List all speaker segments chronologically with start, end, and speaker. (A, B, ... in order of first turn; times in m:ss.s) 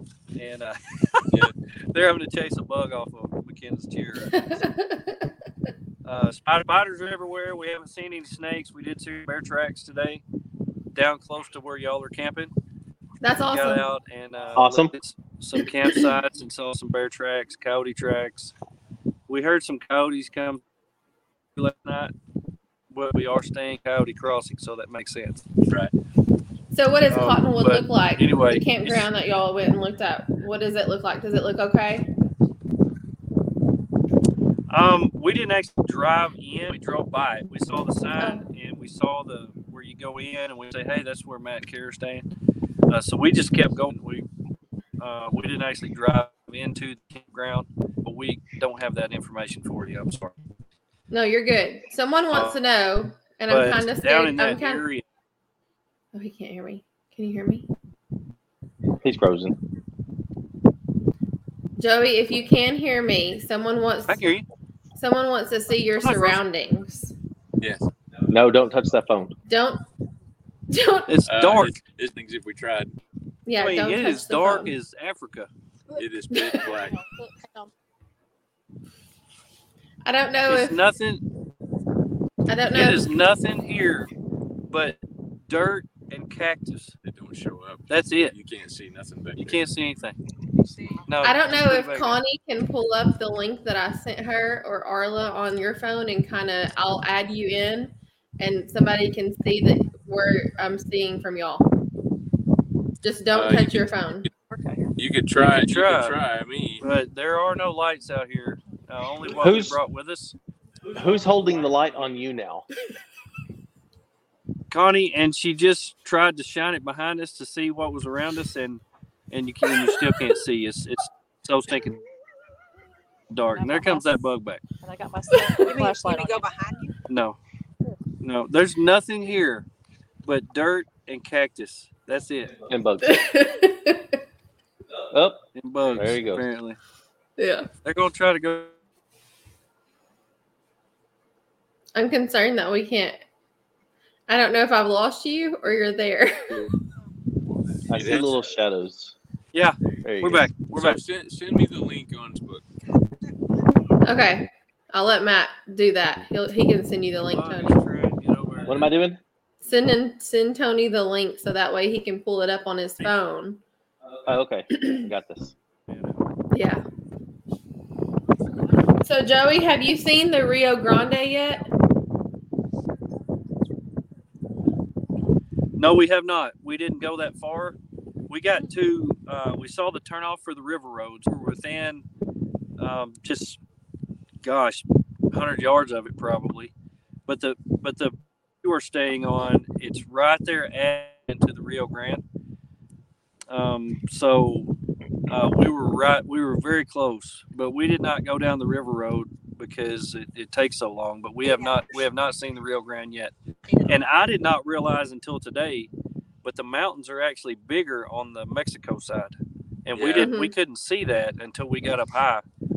0:00.4-0:04.6 A
0:04.3-0:05.2 B
0:06.0-0:10.2 A
0:10.9-0:12.5 A
0:13.2-0:13.8 B
0:13.4-0:18.5 A
0:14.6-0:15.0 C
0:19.3-0:20.6 A
0:21.6-0:22.1 A
0:22.9-0:25.4 A
0:26.7-0:32.1 B
0:27.1-0:29.1 A
0:34.7-0:42.3 A
0:42.9-0:44.3 A
0:45.0-0:50.4 A
0:51.1-0:54.8 B
0:52.3-0:52.6 A
0:53.5-0:55.0 A
0:56.1-0:57.7 B
0:59.0-0:59.6 C
1:01.8-1:04.3 B
1:04.1-1:04.5 A
1:05.0-1:07.1 B
1:06.0-1:06.4 A
1:07.6-1:07.9 D
1:08.3-1:09.3 C
1:09.5-1:09.8 B
1:10.7-1:11.2 B
1:11.1-1:11.8 A
1:11.3-1:12.9 D
1:13.5-1:14.7 B
1:13.6-1:15.5 A
1:16.0-1:17.0 D
1:16.3-1:16.7 B
1:16.6-1:17.7 E
1:20.0-1:20.8 B
1:20.5-1:21.2 A
1:22.5-1:23.1 B
1:22.7-1:24.1 A
1:24.7-1:26.9 A
1:27.0-1:29.6 D
1:27.9-1:28.3 A
1:29.4-1:30.2 A
1:30.6-1:31.0 F
1:31.1-1:32.2 A
1:31.2-1:41.7 B
1:43.0-1:44.3 B
1:43.3-1:44.0 D
1:44.5-1:44.9 E
1:45.0-1:46.8 D
1:45.4-1:46.2 A
1:46.8-1:50.4 A
1:49.3-1:49.8 C
1:50.9-1:52.7 C
1:54.7-2:02.0 A
2:03.3-2:04.6 A
2:03.5-2:04.2 E
2:04.8-2:06.5 E
2:05.6-2:06.9 F
2:07.1-2:07.4 A
2:08.2-2:09.7 A
2:10.2-2:12.6 A
2:12.7-2:13.3 C
2:13.0-2:14.2 B
2:15.1-2:15.4 C
2:15.6-2:16.8 A
2:15.9-2:16.4 C
2:17.4-2:17.7 B
2:17.8-2:18.8 A
2:22.0-2:23.2 B
2:24.3-2:26.7 B
2:27.5-2:28.4 D
2:27.9-2:29.1 C
2:29.5-2:31.0 A
2:30.0-2:30.5 C
2:30.7-2:32.6 D
2:34.0-2:37.8 B
2:37.3-2:38.9 A
2:38.7-2:39.2 C
2:39.6-2:43.6 B
2:44.3-2:45.5 C
2:44.7-2:45.0 B
2:45.9-2:46.2 A
2:46.5-2:46.8 B
2:49.0-2:51.7 B
2:55.8-2:57.8 A
2:58.3-3:02.1 A
3:02.8-3:03.6 A
3:04.4-3:06.7 A
3:07.3-3:12.2 A
3:13.5-3:14.7 A
3:15.3-3:23.3 A
3:21.5-3:22.0 F
3:23.7-3:24.0 F
3:23.9-3:25.9 A
3:26.4-3:32.4 A
3:30.0-3:30.3 D
3:30.2-3:30.6 B